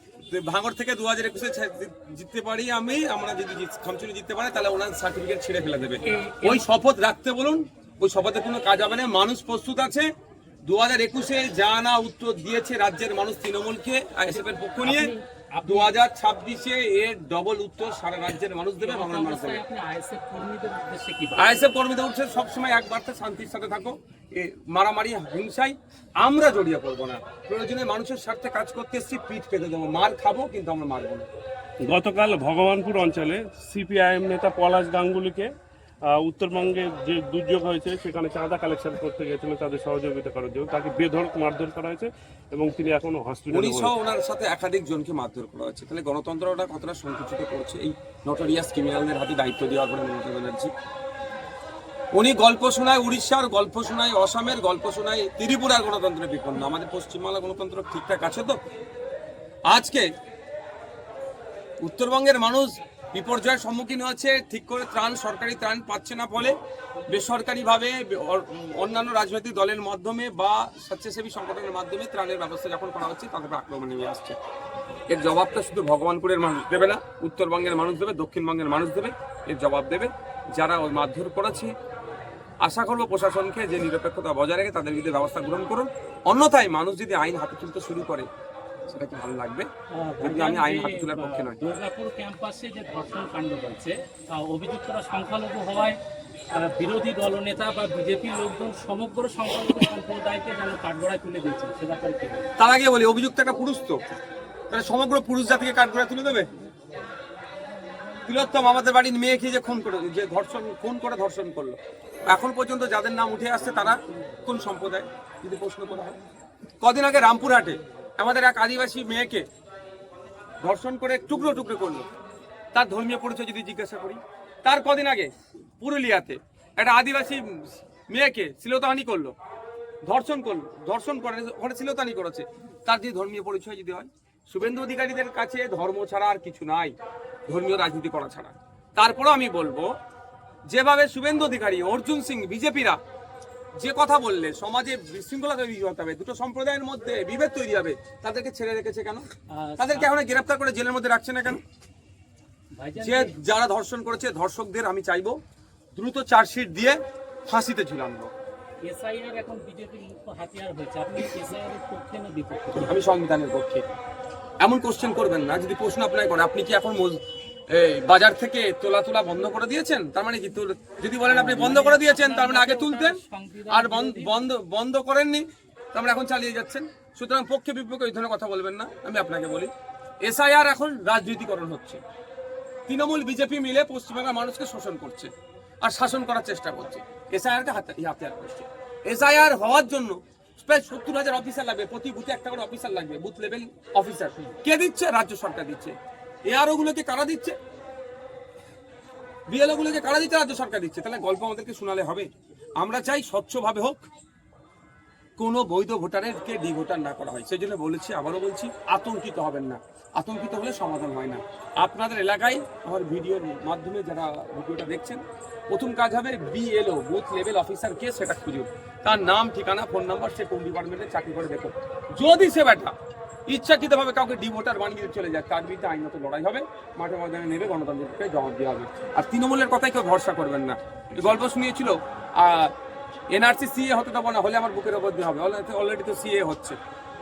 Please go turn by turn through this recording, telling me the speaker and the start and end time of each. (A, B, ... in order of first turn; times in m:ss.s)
0:00.3-0:10.1 A
0:06.0-0:06.7 B
0:10.6-0:15.1 A
0:14.3-0:15.9 B
0:15.6-0:19.6 A
0:18.8-0:21.7 B
0:21.4-0:31.3 A
0:31.8-0:35.5 C
0:36.1-0:43.9 C
0:43.5-0:50.7 A
0:52.1-0:58.6 A
0:59.7-1:00.1 A
1:01.8-1:06.6 A
1:07.1-1:14.4 A
1:15.1-1:21.7 A
1:22.6-1:28.3 A
1:28.9-1:29.7 A
1:29.9-1:36.0 B
1:30.2-1:31.6 A
1:36.6-1:42.5 B
1:42.6-1:44.0 A
1:44.7-1:46.5 A
1:48.2-1:56.2 A
1:56.8-1:59.5 A
2:00.6-2:02.1 A
2:02.7-2:09.4 A
2:10.0-2:17.0 A
2:17.5-2:20.0 A
2:20.7-2:23.0 A
2:23.8-2:29.3 A
2:29.5-2:30.1 B
2:29.8-2:31.6 A
2:32.8-2:33.4 B
2:33.0-2:35.4 A
2:36.0-2:38.3 A
2:38.8-2:43.0 B
2:42.8-2:43.9 A
2:44.6-2:53.2 A
2:51.3-2:54.4 B
2:53.7-2:59.7 A
3:00.2-3:02.0 A
3:02.9-3:05.3 A
3:05.8-3:16.0 A
3:16.5-3:17.6 A
3:19.5-3:24.0 A
3:25.4-3:43.0 A
3:43.5-3:52.7 A
3:53.3-3:56.8 A